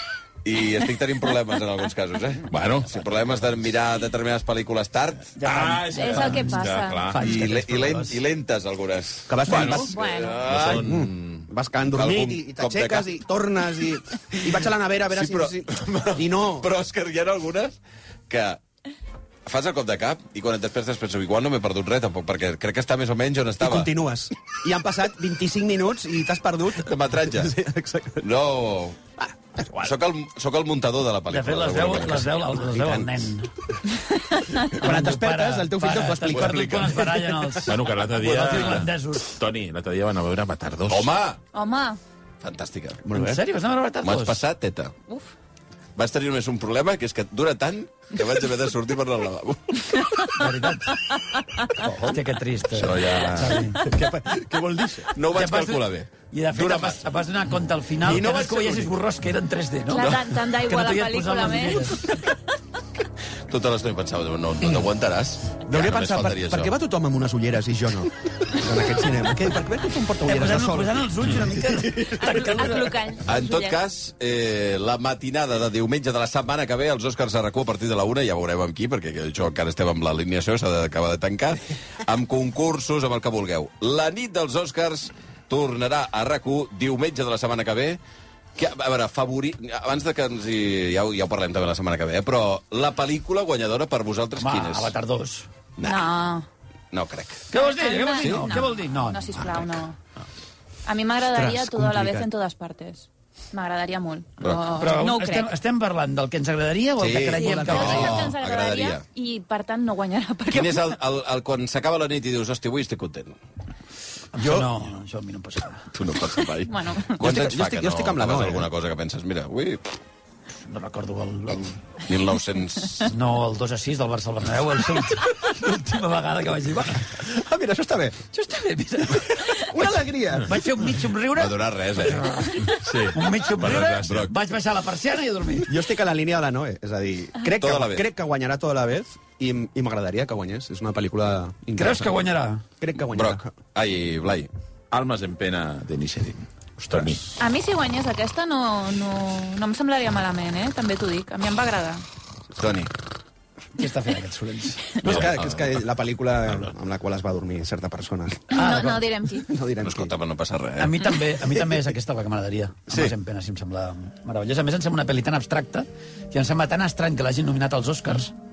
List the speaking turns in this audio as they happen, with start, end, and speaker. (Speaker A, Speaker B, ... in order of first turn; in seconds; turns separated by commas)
Speaker A: 0.4-5.3, Speaker B: 2.5-2.9, Speaker C: 5.4-6.5, Speaker B: 5.4-7.6, Speaker D: 5.9-7.1, Speaker C: 7.1-8.2, Speaker A: 7.2-11.0, Speaker E: 9.3-9.9, Speaker B: 9.4-11.4, Speaker D: 9.9-10.5, Speaker E: 10.6-16.7, Speaker A: 11.9-13.1, Speaker A: 15.1-17.8, Speaker A: 18.3-18.6, Speaker A: 19.4-23.9, Speaker E: 23.6-28.2, Speaker A: 26.7-27.5, Speaker A: 28.2-29.0, Speaker E: 29.2-29.9, Speaker A: 29.7-33.1, Speaker C: 31.3-33.5, Speaker E: 34.6-37.7, Speaker C: 34.7-39.4, Speaker A: 36.2-36.9, Speaker B: 37.7-41.1, Speaker A: 40.9-41.4, Speaker D: 41.5-42.0, Speaker A: 42.4-43.0, Speaker E: 43.0-43.4, Speaker C: 43.1-44.4, Speaker A: 44.0-44.9, Speaker A: 46.0-50.3, Speaker C: 50.3-51.0, Speaker C: 51.8-53.8, Speaker A: 52.7-54.3, Speaker E: 53.8-55.1, Speaker A: 55.1-57.1, Speaker C: 55.3-62.1, Speaker A: 58.0-59.0, Speaker D: 59.9-62.0, Speaker A: 63.5-66.7, Speaker E: 65.6-72.4, Speaker C: 70.2-72.9, Speaker D: 72.2-73.8, Speaker A: 73.2-88.0, Speaker A: 88.5-94.9, Speaker C: 94.4-95.5, Speaker A: 95.8-96.1, Speaker D: 95.8-96.4, Speaker A: 96.9-97.5, Speaker C: 97.5-99.4, Speaker D: 97.5-100.0, Speaker D: 100.8-105.5, Speaker E: 101.3-102.3, Speaker A: 104.4-104.8, Speaker C: 104.8-108.2, Speaker A: 107.0-109.0, Speaker D: 107.4-110.9, Speaker E: 107.5-108.2, Speaker A: 110.5-113.4, Speaker C: 114.3-115.9, Speaker A: 115.9-120.0, Speaker D: 116.7-117.2, Speaker E: 117.2-118.7, Speaker C: 120.7-121.7, Speaker A: 122.0-123.1, Speaker C: 123.1-127.1, Speaker E: 127.2-128.2, Speaker C: 128.3-135.7, Speaker E: 129.7-130.6, Speaker A: 131.3-132.5, Speaker B: 132.7-134.3, Speaker A: 133.7-134.3, Speaker E: 135.7-142.2, Speaker A: 137.4-138.1, Speaker C: 141.8-142.6, Speaker E: 142.8-143.5, Speaker A: 143.0-144.5, Speaker B: 144.9-147.2, Speaker D: 147.4-152.0, Speaker A: 152.6-152.9, Speaker C: 153.8-155.0, Speaker E: 155.0-158.6, Speaker B: 155.1-155.3, Speaker A: 155.1-155.3, Speaker D: 158.5-159.5, Speaker C: 158.5-159.0, Speaker E: 159.5-160.1, Speaker A: 159.8-161.1, Speaker C: 160.8-168.3